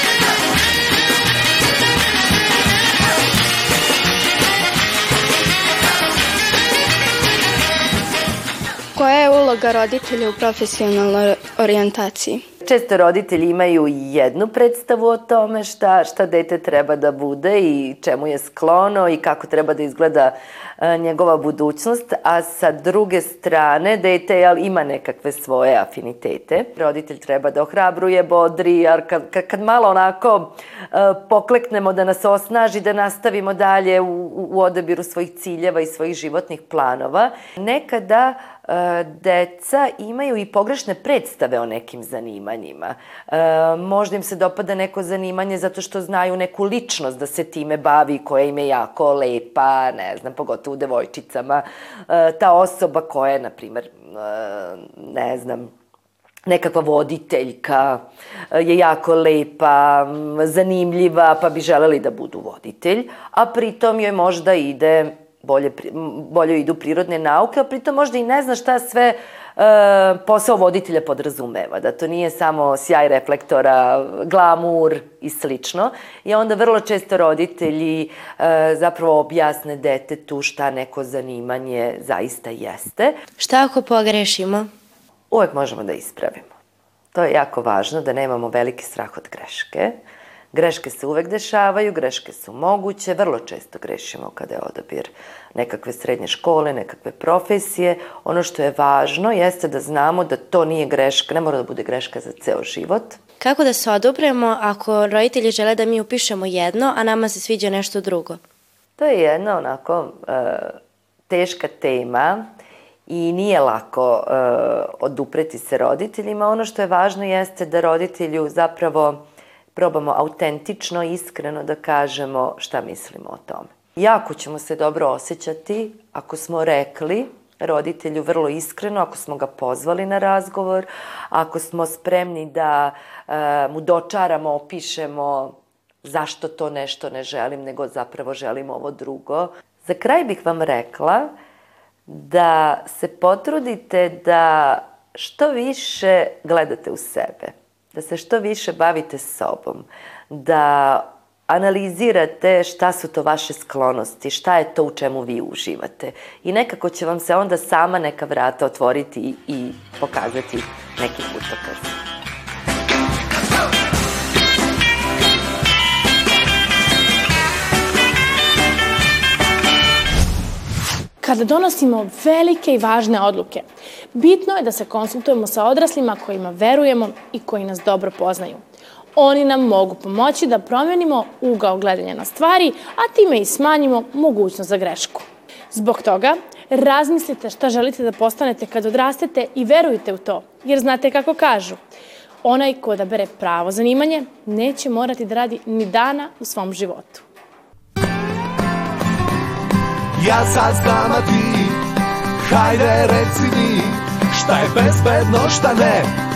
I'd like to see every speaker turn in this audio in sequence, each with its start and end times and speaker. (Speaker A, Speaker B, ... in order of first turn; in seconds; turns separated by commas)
Speaker A: 8.9-12.4, Speaker B: 12.6-55.7, Speaker B: 56.5-83.2, Speaker C: 83.4-84.7, Speaker B: 85.3-86.5, Speaker B: 87.1-90.0, Speaker B: 90.5-103.2, Speaker C: 103.4-108.4, Speaker B: 109.0-110.8, Speaker B: 111.3-112.5, Speaker B: 113.1-119.2, Speaker B: 119.7-141.3, Speaker B: 142.1-162.0, Speaker D: 171.2-178.6, Speaker D: 179.2-191.8, Speaker D: 192.4-197.2, Speaker E: 200.2-201.8, Speaker E: 202.4-206.1